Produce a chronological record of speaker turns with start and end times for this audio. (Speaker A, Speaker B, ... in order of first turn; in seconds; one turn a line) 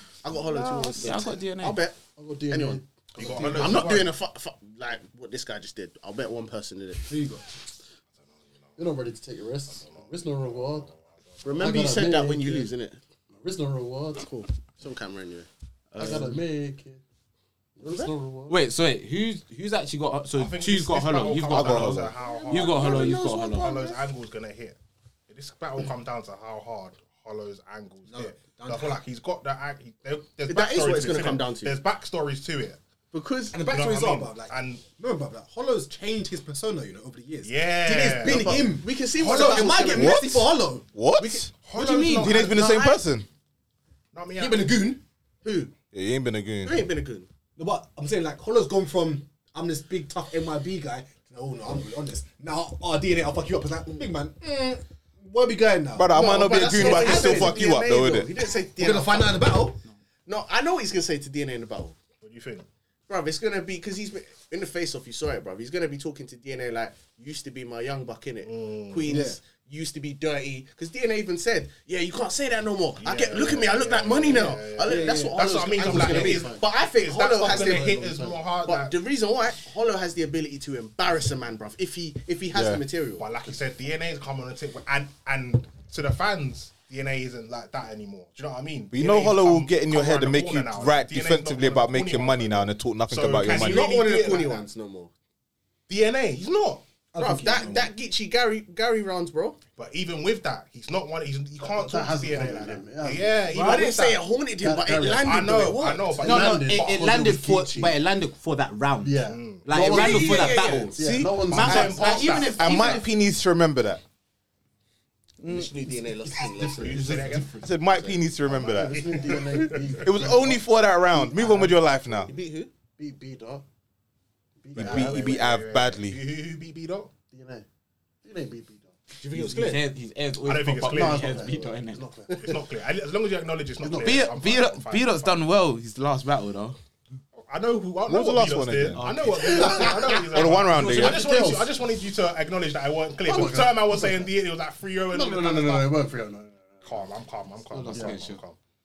Speaker A: 0.2-2.8
Speaker B: 0.5-1.8
Speaker C: 2.2-2.9
Speaker D: 3.1-4.2
Speaker E: 3.2-3.9
Speaker A: 3.4-7.1
Speaker E: 7.1-7.4
Speaker C: 8.8-10.9
Speaker D: 9.8-11.6
Speaker A: 11.4-13.0
Speaker C: 11.6-12.7
Speaker C: 13.4-14.3
Speaker A: 14.2-16.4
Speaker C: 16.0-17.0
Speaker C: 17.8-18.6
Speaker A: 17.8-18.1
Speaker B: 18.5-23.7
Speaker D: 20.3-24.8
Speaker F: 21.5-22.1
Speaker A: 22.2-24.1
Speaker D: 25.3-32.8
Speaker E: 28.1-29.0
Speaker A: 30.5-31.8
Speaker A: 33.1-33.6
Speaker E: 33.5-41.0
Speaker D: 33.6-34.8
Speaker D: 37.4-38.7
Speaker A: 38.2-40.3
Speaker F: 39.9-43.3
Speaker D: 41.2-42.9
Speaker E: 42.0-42.2
Speaker A: 42.2-43.0
Speaker D: 44.1-44.9
Speaker E: 44.4-45.0
Speaker A: 45.4-45.7
Speaker F: 45.9-46.8
Speaker A: 46.6-47.3
Speaker E: 47.6-57.6
Speaker F: 56.0-58.3
Speaker A: 56.1-59.6
Speaker E: 58.8-59.8
Speaker A: 60.3-62.0
Speaker D: 62.2-62.7
Speaker A: 63.1-78.0
Speaker D: 68.4-69.2
Speaker E: 69.1-69.4
Speaker D: 73.0-79.0
Speaker E: 74.9-75.4
Speaker B: 75.0-75.3
Speaker C: 75.4-76.6
Speaker C: 77.4-78.5
Speaker A: 78.6-83.3
Speaker F: 82.5-82.8
Speaker D: 83.2-94.7
Speaker F: 88.9-93.9
Speaker A: 93.4-95.1
Speaker D: 95.9-96.8
Speaker E: 97.1-97.9
Speaker A: 97.2-99.6
Speaker D: 99.8-104.3
Speaker C: 101.6-103.3
Speaker A: 103.5-106.2
Speaker B: 103.5-103.9
Speaker C: 104.6-108.0
Speaker D: 105.2-107.1
Speaker B: 106.2-113.1
Speaker C: 109.0-112.3
Speaker D: 109.2-109.7
Speaker A: 109.8-111.2
Speaker D: 111.4-113.0
Speaker F: 112.5-114.0
Speaker B: 115.4-115.7
Speaker A: 115.5-117.3
Speaker D: 116.6-117.6
Speaker E: 116.9-117.3
Speaker B: 117.0-117.7
Speaker F: 117.6-119.1
Speaker D: 118.4-120.2
Speaker C: 118.5-121.7
Speaker F: 120.0-122.3
Speaker A: 122.3-122.7
Speaker C: 123.0-123.6
Speaker C: 124.6-125.5
Speaker F: 124.8-126.2
Speaker D: 124.8-127.1
Speaker C: 127.3-127.7
Speaker C: 128.2-129.0
Speaker A: 129.1-129.8
Speaker B: 129.3-132.1
Speaker D: 130.4-131.4
Speaker C: 130.9-132.6
Speaker D: 132.4-135.5
Speaker C: 133.8-134.3
Speaker B: 134.0-136.8
Speaker D: 137.3-146.0
Speaker F: 138.1-139.0
Speaker B: 139.0-140.1
Speaker C: 139.4-141.7
Speaker F: 140.2-141.2
Speaker C: 143.2-144.3
Speaker C: 145.1-147.1
Speaker D: 146.8-148.6
Speaker C: 147.7-148.2
Speaker B: 147.8-148.4